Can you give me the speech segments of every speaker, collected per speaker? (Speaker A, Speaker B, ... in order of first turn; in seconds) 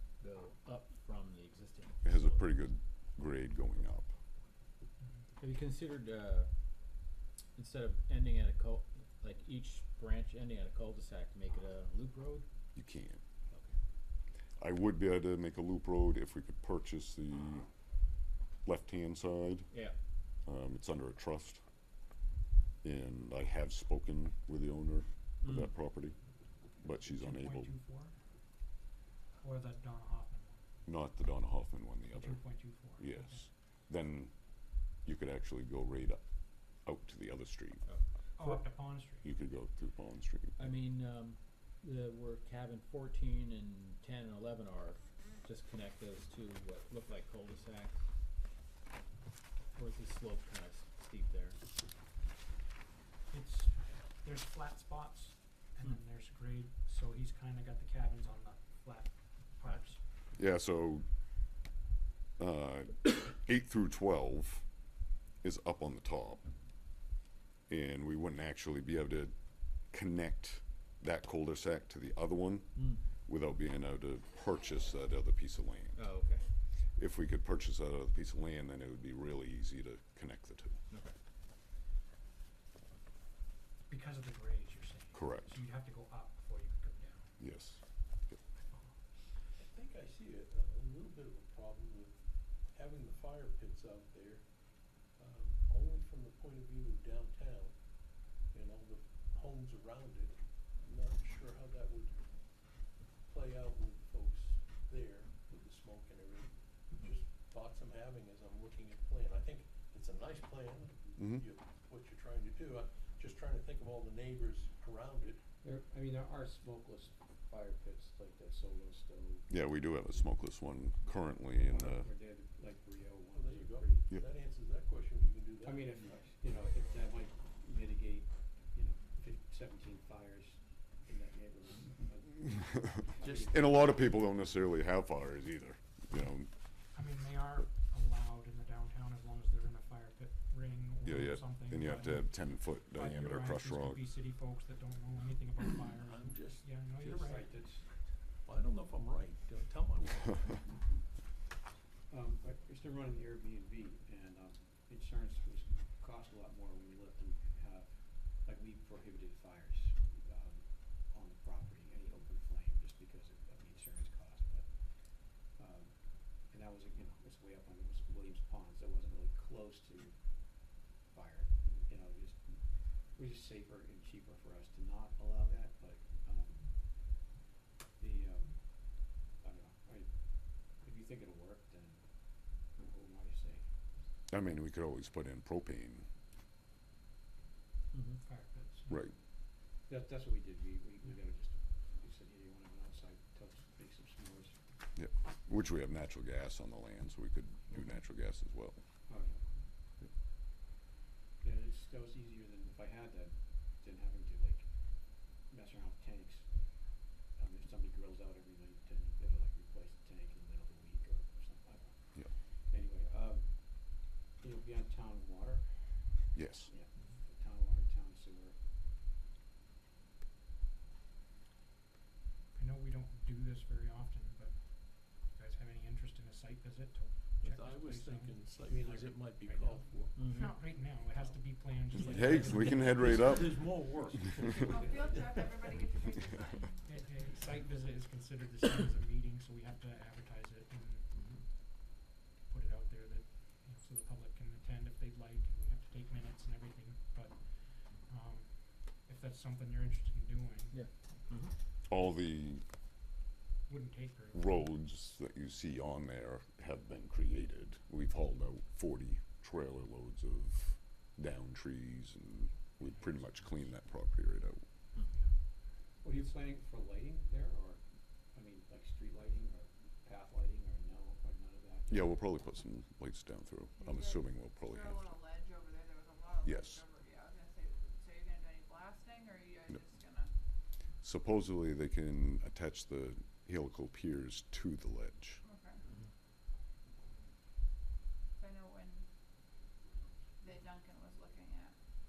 Speaker A: 0.2-2.4, 5.4-6.5, 7.6-12.5, 25.4-25.7, 37.9-38.6, 40.6-48.0, 49.7-51.6, 72.8-73.0, 76.0-76.5, 80.9-81.2, 230.2-230.6, 250.7-251.6
Speaker B: 2.0-4.1, 12.8-13.2, 14.6-17.7, 18.6-19.7, 20.5-21.6, 22.8-26.2, 26.8-27.7, 30.9-34.3, 35.0-36.2, 36.9-37.8, 39.2-40.8, 60.4-61.0, 62.4-64.7, 65.4-66.5, 67.7-76.0, 77.0-80.8, 85.1-85.5, 87.4-88.4, 111.2-111.5, 119.5-122.1, 133.3-136.5, 141.0-144.0, 184.3-186.1, 188.9-189.1, 195.0-198.8, 216.3-216.7, 231.9-233.8, 251.9-252.7, 254.3-264.6, 271.9-275.0, 276.4-276.8, 281.0-285.4
Speaker C: 27.0-28.1, 29.4-30.6, 32.1-33.5, 38.4-39.3, 53.3-60.0, 83.9-87.4, 136.9-147.5, 188.1-189.1, 222.5-233.1, 236.9-241.1, 242.5-250.9, 253.7-254.7, 262.8-263.8, 265.0-265.3
Speaker D: 89.6-94.5, 95.2-97.8, 98.5-102.2, 103.3-115.4, 123.3-126.3, 145.9-147.4, 148.4-150.8, 227.4-230.2, 232.1-236.3, 241.2-241.4
Speaker E: 115.6-119.5, 121.5-124.1, 125.6-134.1, 147.2-147.9, 152.1-164.7, 165.5-177.2, 178.0-183.7, 189.9-194.6, 199.1-199.6, 201.4-206.5, 207.3-218.6, 234.7-235.2, 266.0-272.1
Speaker F: 234.7-236.9, 273.8-280.3, 285.4-285.8, 288.4-289.1, 290.4-291.8